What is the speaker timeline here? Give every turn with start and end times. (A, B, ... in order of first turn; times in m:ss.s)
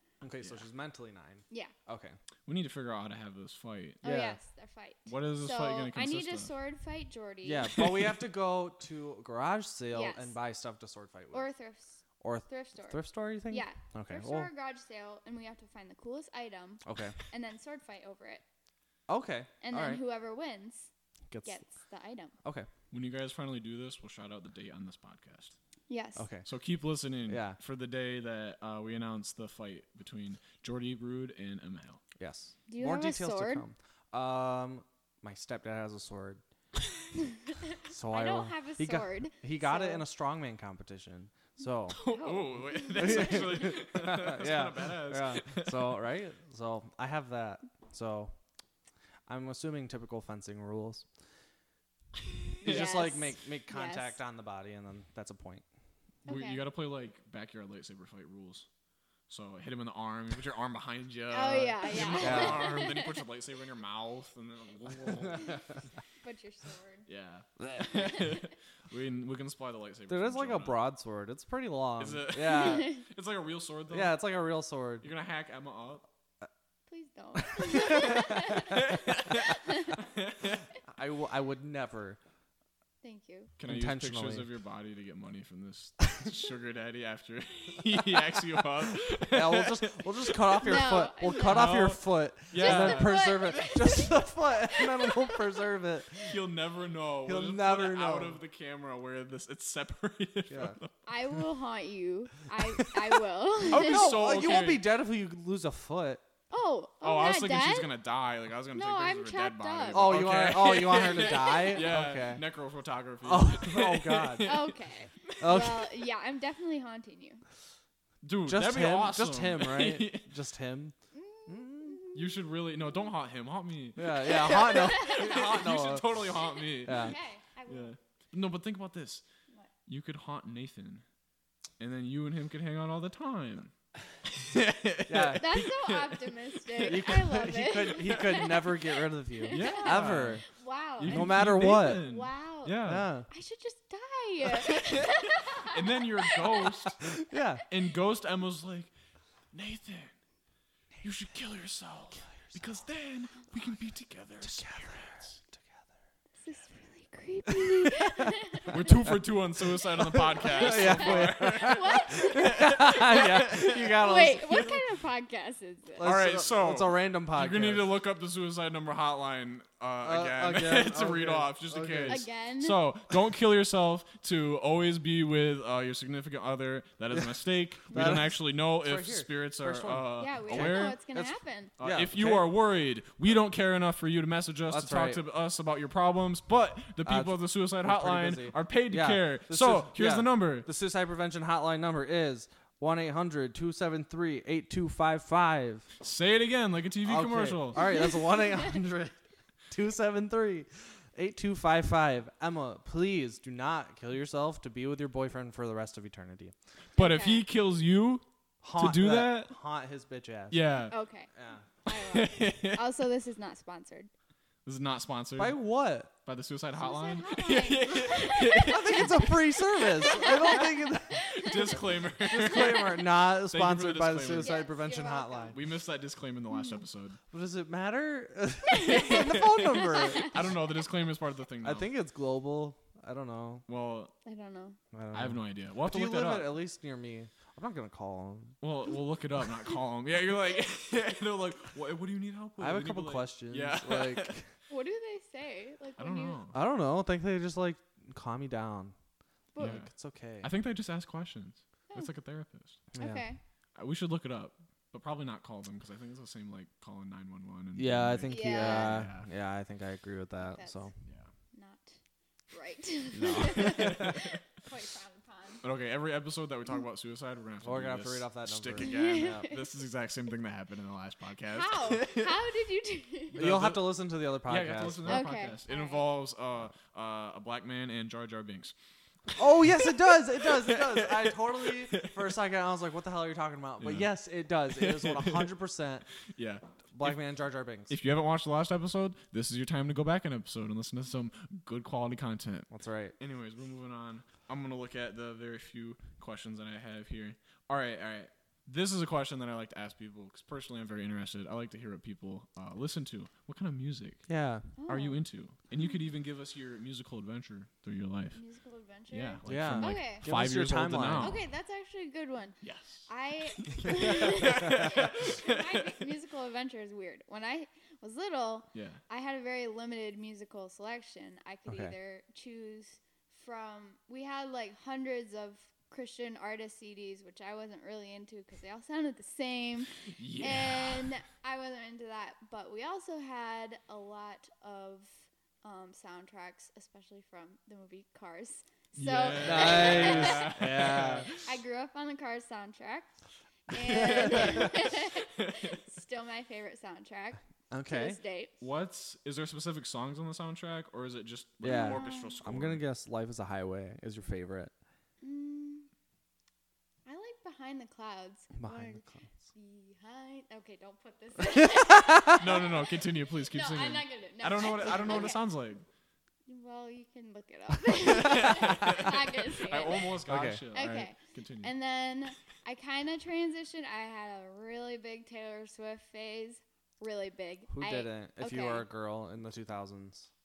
0:00.2-0:02.2 A
0:02.5-0:04.0 B
0:04.0-0:04.4 A
0:04.0-0:07.8 C
0:05.1-0:06.5 B
0:07.4-0:11.5 A
0:07.8-0:08.1 B
0:09.9-0:10.4 C
0:11.3-0:18.4 C
0:12.2-0:14.5 A
0:16.9-0:17.2 A
0:19.1-0:20.0 A
0:19.6-0:20.9 C
0:21.3-0:21.6 A
0:21.4-0:22.3 C
0:22.9-0:25.6 B
0:25.9-0:26.3 C
0:26.2-0:26.5 A
0:26.4-0:32.0 B
0:27.3-0:27.6 A
0:32.2-0:36.4 A
0:32.7-0:33.6 C
0:37.3-0:40.0 C
0:37.8-0:42.0 A
0:41.9-0:46.0 B
0:41.9-0:43.7 C
0:42.9-0:48.4 A
0:49.3-0:51.1 A
0:52.3-0:52.9 B
0:52.6-0:54.2 C
0:52.6-0:55.6 A
0:56.2-0:58.7 B
0:56.3-0:56.7 C
0:59.3-1:05.6 B
1:01.3-1:03.2 C
1:02.2-1:02.8 A
1:05.2-1:05.5 A
1:05.4-1:05.6 C
1:06.2-1:07.1 C
1:07.1-1:10.8 B
1:10.1-1:13.0 A
1:12.0-1:14.2 B
1:12.5-1:13.0 C
1:13.9-1:15.1 A
1:15.0-1:16.1 B
1:16.9-1:20.0 C
1:17.4-1:18.6 A
1:18.4-1:20.6 B
1:20.9-1:22.2 A
1:23.0-1:23.5 C
1:23.6-1:30.6 B
1:23.6-1:24.5 A
1:29.3-1:36.4 A
1:30.6-1:31.8 C
1:31.4-1:33.6 B
1:32.6-1:35.6 C
1:36.2-1:41.0 B
1:37.3-1:38.4 A
1:40.5-1:40.8 A
1:41.1-1:44.2 C
1:43.7-1:44.8 B
1:43.7-1:46.2 A
1:46.5-1:47.9 C
1:47.0-1:55.4 B
1:48.7-1:50.3 C
1:49.9-1:52.4 A
1:50.9-1:51.9 C
1:53.2-1:54.6 A
1:54.4-1:57.4 C
1:55.4-1:55.9 A
1:58.2-2:00.3 B
1:58.5-2:01.0 A
2:01.1-2:02.3 C
2:01.5-2:02.0 A
2:02.1-2:07.1 B
2:04.0-2:06.3 A
2:04.2-2:05.7 C
2:06.6-2:07.9 C
2:06.8-2:07.2 A
2:07.7-2:09.2 B
2:09.9-2:11.0 B
2:11.8-2:13.7 B
2:14.3-2:16.2 B
2:15.1-2:15.7 A
2:15.4-2:27.0 C
2:16.8-2:20.5 A
2:18.0-2:18.5 B
2:19.5-2:20.4 B
2:21.0-2:23.1 B
2:21.0-2:22.1 A
2:22.9-2:23.3 A
2:24.7-2:27.1 B
2:27.0-2:27.6 A
2:27.7-2:28.9 B
2:29.5-2:30.1 B
2:31.0-2:35.4 B
2:32.2-2:32.6 A
2:34.4-2:35.9 A
2:36.4-2:38.8 C
2:37.5-2:38.3 A
2:38.7-2:43.9 B
2:38.9-2:39.2 A
2:39.9-2:44.8 A
2:40.4-2:46.1 C
2:46.0-2:47.9 A
2:46.0-3:01.0 B
2:50.0-2:52.2 A
2:52.1-2:52.8 C
2:57.9-3:02.5 A
3:00.2-3:01.7 C
3:01.8-3:10.7 B
3:04.7-3:05.2 A
3:07.0-3:15.9 A
3:16.0-3:18.0 B
3:17.0-3:19.2 A
3:18.1-3:18.5 C
3:19.7-3:26.6 A
3:27.0-3:27.4 C
3:27.0-3:29.6 B
3:28.6-3:30.6 A
3:30.5-3:31.0 B
3:30.9-3:34.1 C
3:31.3-3:31.6 A
3:31.9-3:32.9 B
3:34.6-3:35.6 B
3:35.4-3:36.1 A
3:36.2-3:44.6 B
3:36.8-3:42.9 C
3:38.6-3:41.3 A
3:42.2-3:45.6 A
3:44.3-3:45.6 C
3:45.5-3:47.2 B
3:46.5-3:46.8 C
3:47.3-3:50.4 A
3:48.7-3:50.4 C
3:48.8-3:51.9 B
3:51.6-3:53.6 A
3:53.7-3:54.1 B
3:54.2-3:54.8 C
3:54.9-3:58.6 A
3:55.1-3:56.6 B
3:58.6-4:04.4 B
4:02.6-4:04.5 A
4:04.7-4:06.4 C
4:06.0-4:06.6 B
4:06.5-4:09.0 A
4:09.5-4:09.8 C
4:09.6-4:10.5 A
4:09.6-4:09.9 B
4:10.4-4:12.8 B
4:12.9-4:13.3 A
4:13.0-4:13.4 C
4:13.8-4:19.3 B
4:17.8-4:20.9 A
4:18.3-4:19.1 C
4:20.4-4:20.9 C
4:21.0-4:21.3 B
4:21.5-4:22.0 C
4:22.5-4:25.6 C
4:23.1-4:24.2 A
4:23.2-4:24.4 B
4:25.6-4:32.3 B
4:27.6-4:29.4 A
4:28.8-4:29.7 C
4:31.5-4:33.4 C
4:33.4-4:35.3 A
4:33.4-4:38.7 B
4:35.1-4:36.1 C
4:39.4-4:46.1 A
4:39.6-4:42.2 B
4:43.8-4:44.1 B
4:44.7-4:45.5 B
4:46.3-4:47.2 B
4:46.9-4:47.9 A
4:47.9-5:04.3 B
4:52.7-4:53.2 A
5:04.3-5:04.7 A
5:04.8-5:05.2 C
5:04.9-5:08.4 B
5:08.4-5:10.3 C
5:09.1-5:11.4 B
5:09.4-5:11.4 A
5:11.2-5:43.2 C
5:12.6-5:16.0 B
5:18.7-5:19.0 B
5:21.7-5:22.0 A
5:30.1-5:31.2 B
5:39.0-5:41.4 B
5:39.4-5:41.3 A
5:43.7-5:48.5 C
5:43.8-5:44.8 A
5:43.9-5:45.8 B
5:47.7-5:48.2 A
5:48.6-5:52.8 B
5:51.6-5:54.7 A
5:51.7-5:52.4 C
5:55.2-5:55.9 C
5:57.1-6:05.4 C
5:58.6-5:59.3 A
6:01.5-6:02.4 A
6:02.3-6:05.8 B
6:06.5-6:10.2 C
6:08.0-6:11.7 B
6:08.4-6:09.0 A
6:10.3-6:10.6 A
6:10.7-6:18.9 C
6:17.7-6:20.3 A